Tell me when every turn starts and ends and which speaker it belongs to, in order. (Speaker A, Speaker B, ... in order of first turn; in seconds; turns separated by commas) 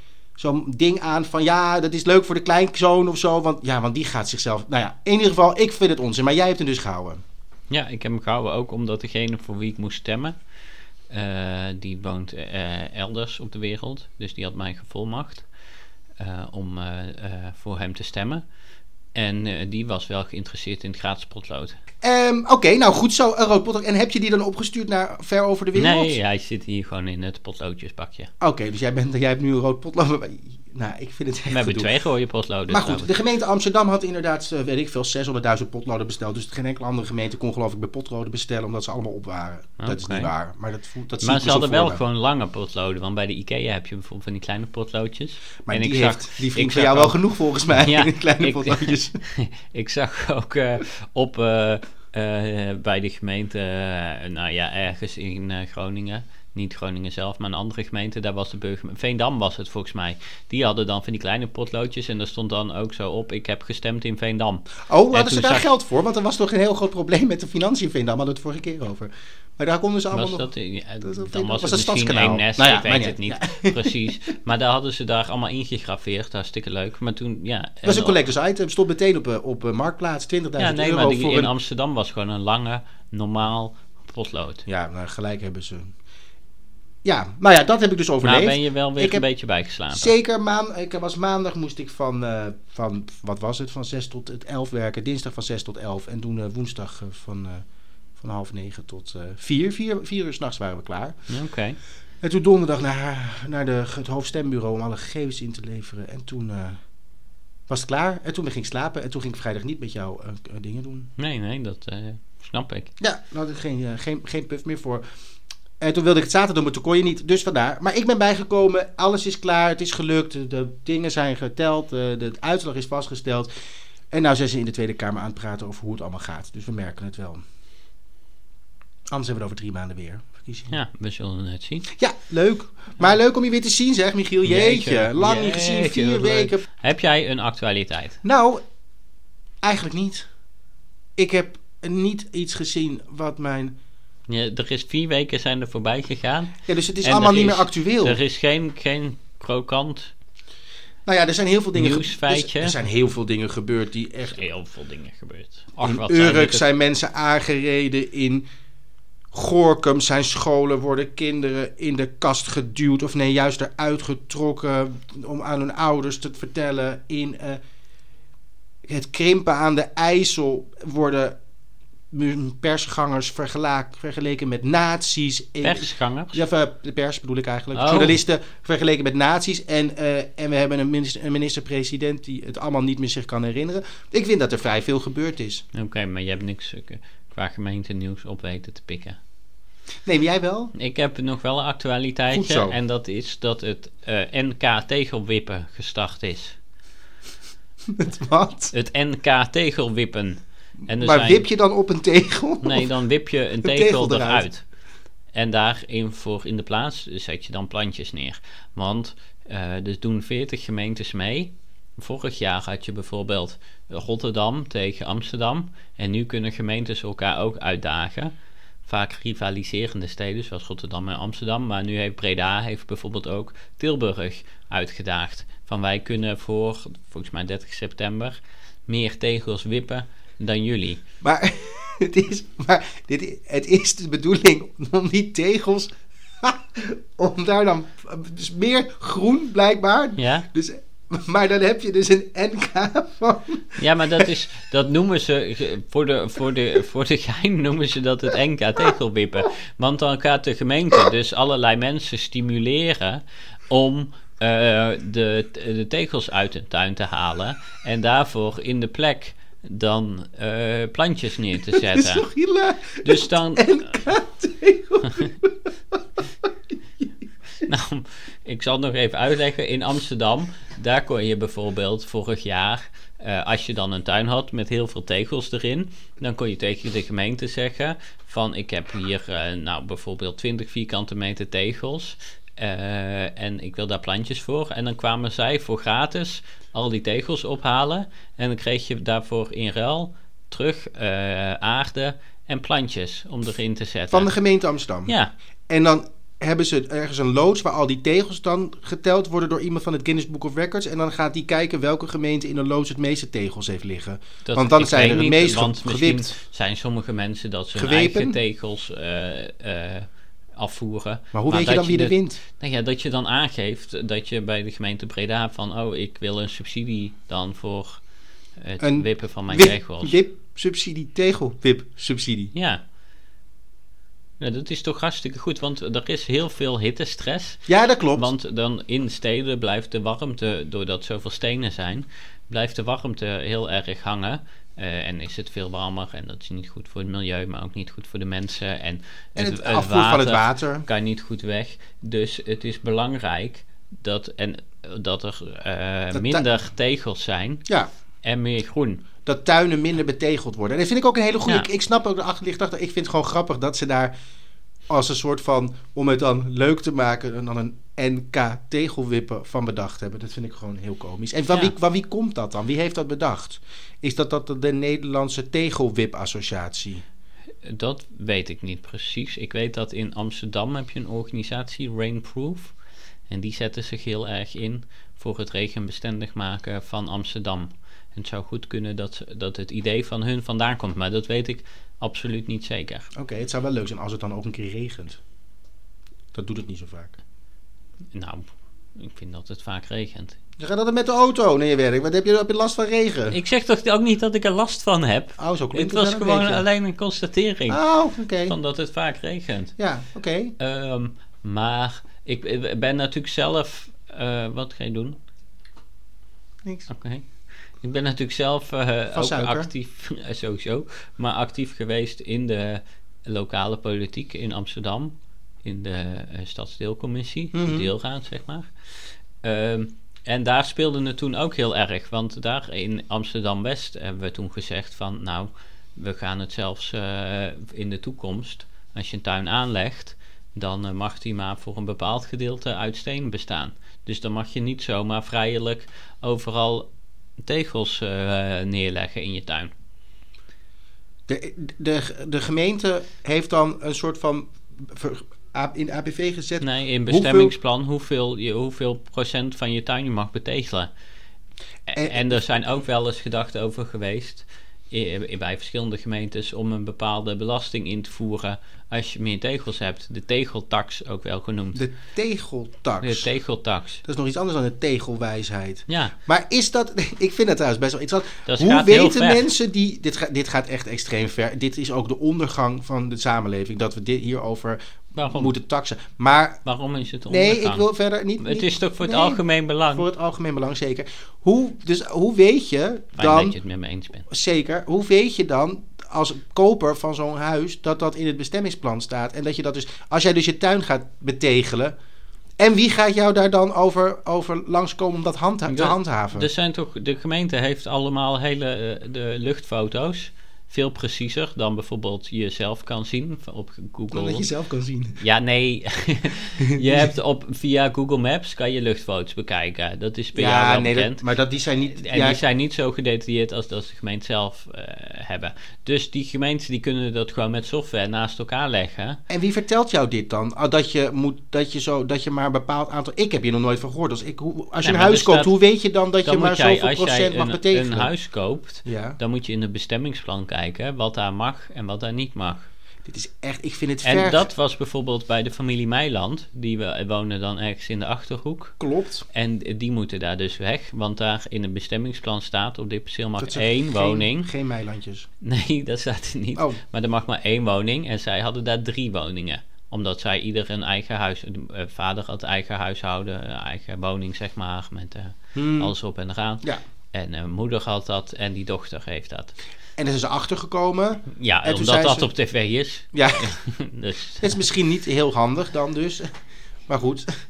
Speaker A: 0.3-7.2, Speaker B: 7.7-10.3, Speaker B: 11.1-15.5, Speaker B: 16.2-18.5, Speaker B: 19.1-21.8, Speaker A: 22.0-26.1, Speaker B: 25.7-28.3, Speaker A: 28.4-31.9, Speaker B: 31.5-33.1, Speaker A: 32.7-42.0, Speaker B: 39.8-40.3, Speaker B: 41.2-47.2, Speaker A: 45.6-49.2, Speaker B: 47.7-65.7, Speaker A: 64.9-70.5, Speaker B: 70.1-78.2, Speaker A: 71.0-74.0, Speaker A: 77.8-81.5, Speaker B: 80.6-84.7, Speaker A: 84.7-85.9, Speaker A: 87.0-89.2, Speaker B: 88.2-90.1, Speaker A: 89.9-97.6, Speaker A: 98.2-101.1, Speaker B: 101.3-101.8, Speaker A: 102.2-106.8, Speaker A: 107.7-111.1, Speaker B: 111.2-112.9, Speaker A: 113.0-115.0, Speaker A: 115.8-123.5, Speaker A: 124.1-127.4, Speaker A: 129.1-130.7, Speaker B: 130.7-131.9, Speaker A: 131.9-136.6, Speaker B: 134.4-138.2, Speaker A: 138.2-138.6, Speaker A: 139.6-140.3, Speaker A: 141.2-143.7, Speaker B: 144.3-150.1, Speaker A: 146.7-148.2, Speaker A: 151.1-154.4, Speaker B: 151.7-152.8, Speaker B: 154.2-156.6, Speaker A: 155.8-158.4, Speaker A: 159.3-167.6, Speaker A: 168.9-171.4, Speaker A: 172.1-185.6, Speaker B: 175.6-176.4, Speaker B: 177.7-178.2, Speaker B: 185.7-189.2, Speaker A: 190.0-190.7, Speaker B: 190.7-196.6, Speaker A: 192.3-192.8, Speaker A: 197.9-198.7, Speaker B: 198.7-201.5, Speaker A: 201.0-202.9, Speaker B: 202.6-204.6, Speaker A: 203.6-204.5, Speaker B: 205.3-218.3, Speaker B: 218.8-231.0, Speaker A: 231.2-244.2, Speaker B: 240.2-240.5, Speaker B: 243.8-262.3, Speaker A: 261.8-265.7, Speaker B: 263.0-264.1, Speaker B: 265.0-265.3, Speaker B: 267.6-294.3, Speaker A: 294.1-295.1, Speaker B: 295.1-295.3, Speaker A: 295.7-306.4, Speaker B: 304.4-318.0, Speaker A: 307.8-308.4, Speaker A: 311.3-312.4, Speaker B: 318.6-320.1, Speaker A: 318.8-322.5, Speaker B: 322.5-322.8, Speaker B: 324.4-347.6, Speaker A: 327.7-328.3, Speaker A: 339.4-340.9, Speaker A: 346.1-346.4, Speaker B: 348.2-349.0, Speaker A: 349.2-354.1, Speaker A: 354.9-367.0, Speaker B: 367.6-372.8, Speaker B: 373.3-383.1, Speaker A: 383.1-385.2, Speaker A: 386.3-387.1, Speaker B: 388.1-390.4, Speaker A: 390.6-393.4, Speaker B: 393.3-397.8, Speaker A: 395.4-396.6, Speaker A: 397.7-398.6, Speaker B: 398.4-399.8, Speaker A: 399.8-400.5, Speaker B: 400.6-405.2, Speaker B: 406.9-436.9, Speaker A: 409.1-409.7, Speaker A: 417.5-417.9, Speaker B: 437.4-439.7, Speaker A: 441.3-447.5, Speaker B: 446.6-450.9, Speaker B: 451.9-461.8, Speaker A: 451.9-452.4, Speaker A: 461.7-463.3, Speaker B: 463.0-464.0, Speaker A: 464.0-474.8, Speaker B: 465.9-466.1, Speaker B: 468.4-469.4, Speaker B: 475.1-475.5, Speaker A: 475.3-476.6, Speaker B: 476.6-477.8, Speaker A: 477.3-479.4, Speaker B: 478.4-480.1, Speaker A: 479.9-483.6, Speaker B: 483.2-484.3, Speaker A: 484.3-491.9, Speaker A: 492.6-496.5, Speaker B: 495.7-504.5, Speaker A: 504.1-505.2, Speaker B: 505.2-511.3, Speaker A: 506.8-507.1, Speaker A: 510.3-512.4, Speaker B: 511.9-519.2, Speaker A: 519.3-528.1, Speaker B: 524.8-525.5, Speaker B: 526.2-532.7, Speaker A: 528.8-529.2, Speaker A: 533.0-534.5, Speaker B: 534.0-538.8, Speaker A: 538.8-539.2, Speaker B: 539.3-544.5, Speaker A: 543.4-545.3, Speaker B: 545.4-559.5, Speaker A: 555.5-555.9, Speaker A: 560.0-562.3, Speaker B: 561.3-564.6, Speaker A: 563.1-563.6, Speaker A: 564.4-566.3, Speaker A: 566.9-567.2